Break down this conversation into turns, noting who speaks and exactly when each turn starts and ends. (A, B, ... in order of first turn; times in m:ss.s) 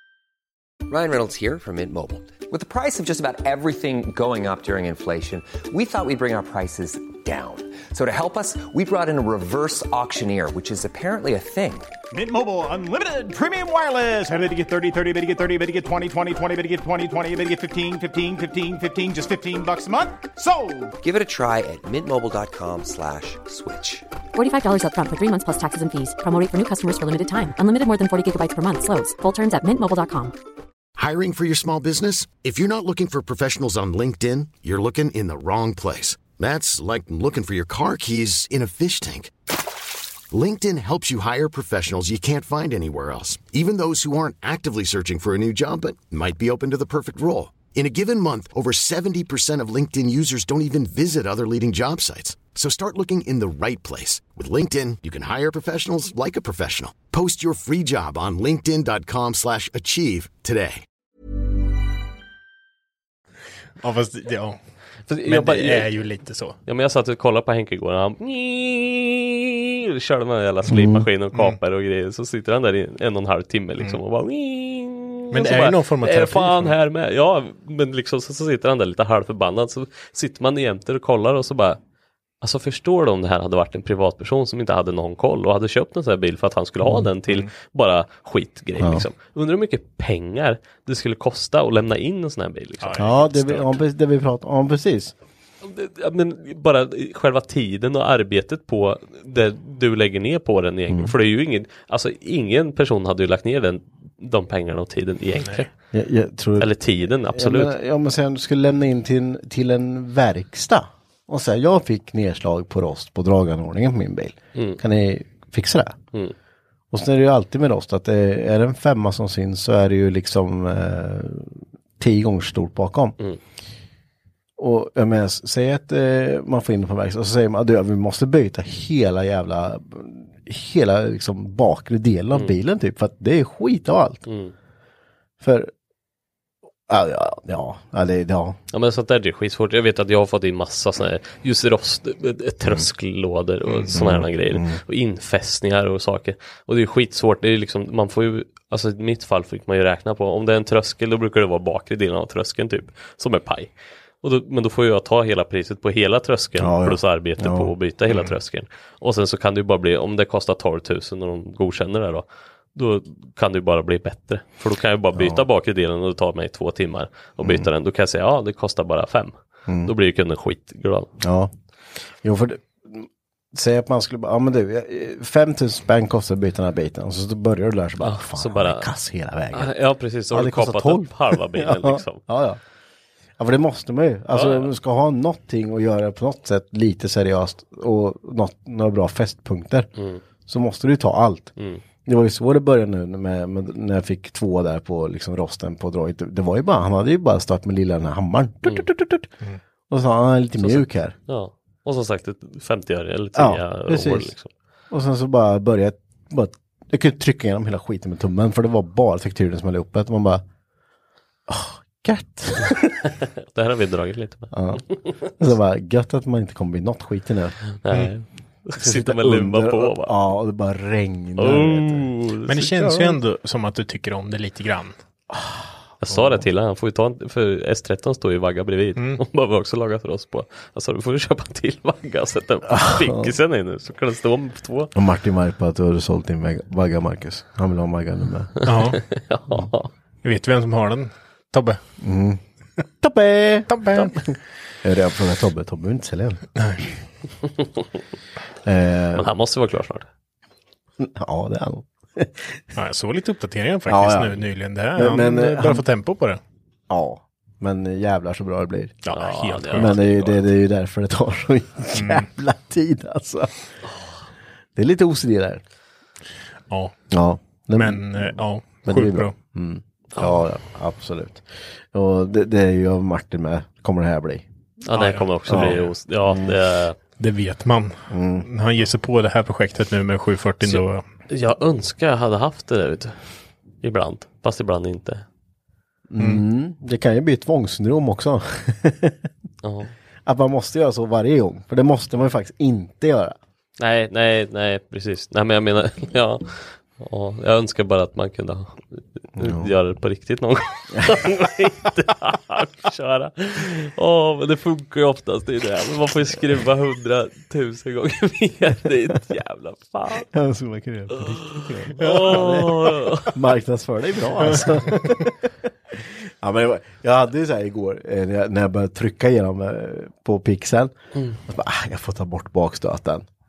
0:00.9-0:11.9 A
0:12.1-0:20.9 B
0:21.0-0:24.0 A
0:24.3-0:30.3 C
0:31.0-0:39.3 D
0:40.3-1:00.8 D
1:03.8-1:04.6 E
1:05.1-1:05.9 F
1:05.2-1:06.6 E
1:06.6-1:21.8 F
1:10.7-1:11.1 G
1:15.3-1:16.7 E
1:22.4-1:33.1 F
1:28.8-1:29.0 G
1:32.8-1:33.7 E
1:33.0-1:35.1 G
1:35.6-1:45.7 F
1:45.9-1:46.7 G
1:46.6-1:47.7 F
1:47.3-1:56.0 G
1:56.9-2:03.2 G
2:04.6-2:14.2 G
2:14.3-2:14.5 F
2:15.4-2:15.7 G
2:16.9-2:18.6 G
2:18.7-2:33.7 F
2:23.9-2:24.8 G
2:34.2-2:51.1 F
2:36.6-2:37.7 G
2:45.1-2:45.4 G
2:47.4-2:47.7 G
2:51.2-2:51.5 G
2:52.2-2:59.7 G
2:58.0-2:58.9 F
2:59.5-3:02.2 F
3:00.3-3:02.6 G
3:03.4-3:09.9 G
3:04.3-3:04.7 F
3:10.0-3:10.2 F
3:10.5-3:11.5 G
3:11.6-3:11.8 F
3:12.0-3:19.3 G
3:19.9-3:21.1 G
3:20.6-3:24.5 F
3:23.3-3:24.3 G
3:24.9-3:30.4 G
3:31.5-3:32.7 G
3:33.2-3:35.2 F
3:34.5-3:34.8 G
3:35.3-3:37.6 G
3:37.8-3:40.1 F
3:38.8-3:42.1 G
3:41.4-3:43.1 F
3:42.5-3:44.9 E
3:45.3-3:45.6 G
3:46.0-3:54.9 F
3:52.7-3:53.3 G
3:54.9-3:58.5 G
3:58.6-3:59.9 F
3:58.6-3:59.0 E
4:00.2-4:01.8 E
4:02.0-4:02.4 G
4:03.0-4:06.4 G
4:03.7-4:04.1 E
4:08.6-4:09.3 G
4:09.1-4:10.1 F
4:11.0-4:12.6 G
4:12.7-4:16.4 E
4:13.9-4:14.4 G
4:14.9-4:15.8 G
4:16.9-4:19.0 G
4:19.0-4:20.1 E
4:19.1-4:20.4 F
4:19.7-4:23.5 G
4:21.9-4:22.3 E
4:24.8-4:25.6 G
4:27.1-4:34.4 G
4:27.7-4:29.3 E
4:34.8-4:37.0 F
4:34.9-4:35.9 E
4:35.5-4:36.5 G
4:37.2-4:41.0 E
4:38.1-4:38.4 G
4:40.6-4:43.2 F
4:43.8-4:45.2 F
4:46.1-4:49.2 G
4:49.6-4:49.9 F
4:50.2-4:53.4 G
4:53.8-5:10.3 F
4:59.4-4:59.7 G
5:10.2-5:23.2 G
5:11.2-5:13.4 F